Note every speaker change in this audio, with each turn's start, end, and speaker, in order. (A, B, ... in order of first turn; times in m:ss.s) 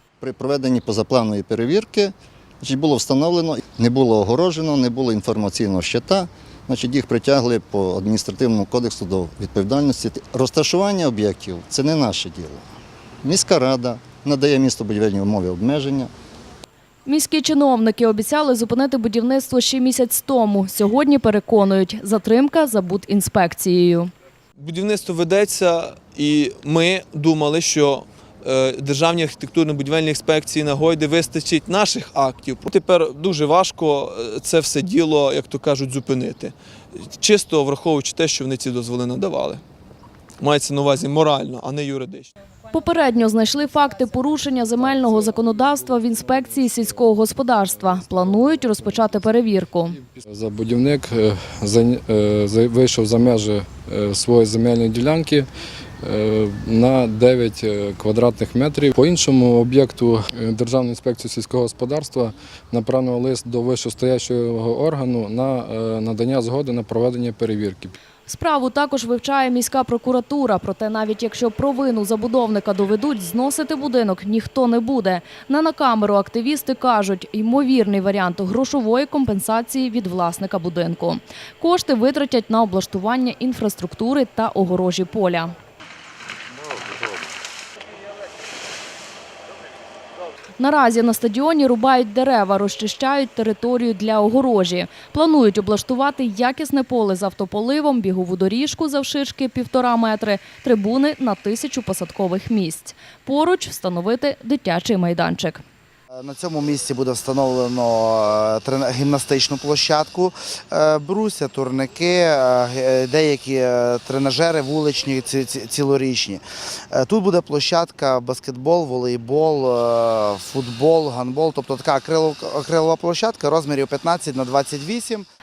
0:00.2-0:12.6 A
0:13.2-0:16.1 A
0:17.0-0:24.1 B
0:24.6-0:39.6 C
0:40.4-0:42.3 C
0:42.7-0:50.0 B
0:44.9-0:47.0 D
0:47.8-0:49.1 D
0:50.0-0:55.5 D
0:56.0-1:07.9 D
1:08.2-1:25.5 B
1:30.6-1:45.6 B
1:46.1-2:05.3 E